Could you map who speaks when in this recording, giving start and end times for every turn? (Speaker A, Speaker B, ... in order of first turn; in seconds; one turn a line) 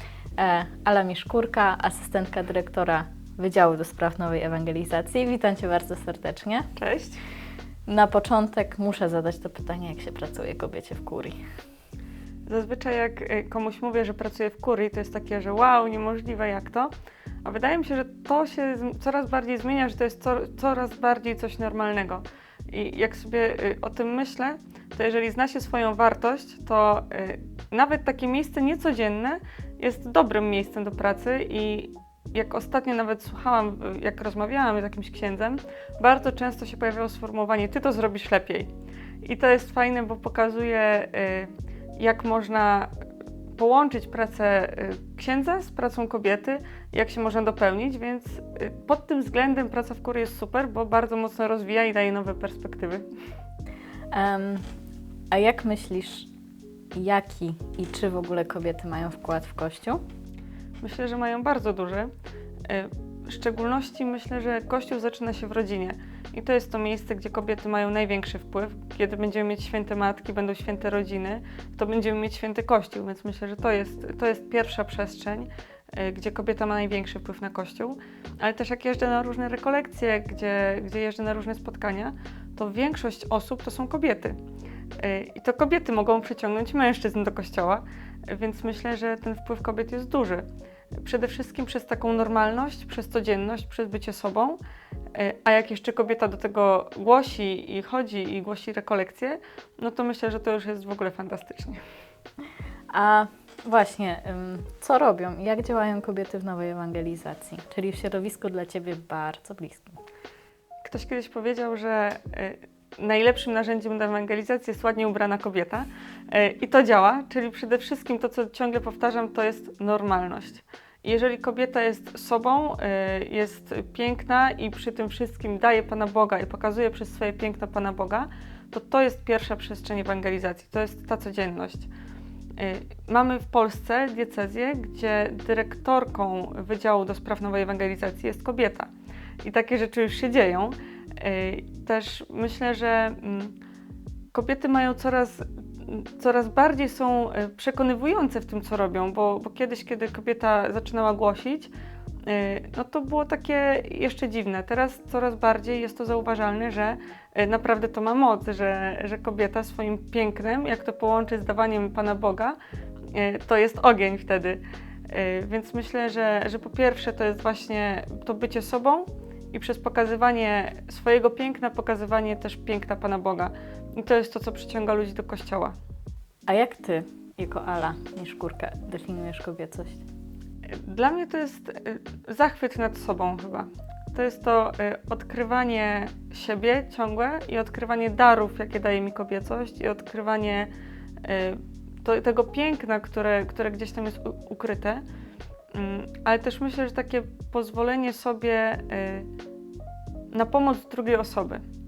Speaker A: 0.4-6.7
Speaker B: 6.8-7.2
Speaker A: 7.9-11.4
Speaker B: 12.5-16.9
Speaker B: 17.4-38.7
Speaker B: 39.2-42.9
Speaker B: 43.5-53.0
Speaker A: 54.1-54.6
Speaker A: 55.3-56.3
Speaker A: 56.9-60.0
Speaker B: 60.8-62.1
Speaker B: 62.7-84.4
Speaker B: 85.0-90.5
Speaker B: 91.0-94.6
Speaker B: 95.1-101.8
Speaker A: 102.9-110.0
Speaker B: 110.8-131.9
Speaker B: 132.6-138.9
Speaker B: 139.4-143.6
Speaker B: 144.3-151.7
Speaker B: 152.3-162.6
Speaker B: 163.1-175.8
Speaker A: 176.5-180.0
Speaker B: 180.8-190.7
Speaker B: 191.2-195.0
Speaker B: 195.7-199.3
Speaker B: 200.3-201.6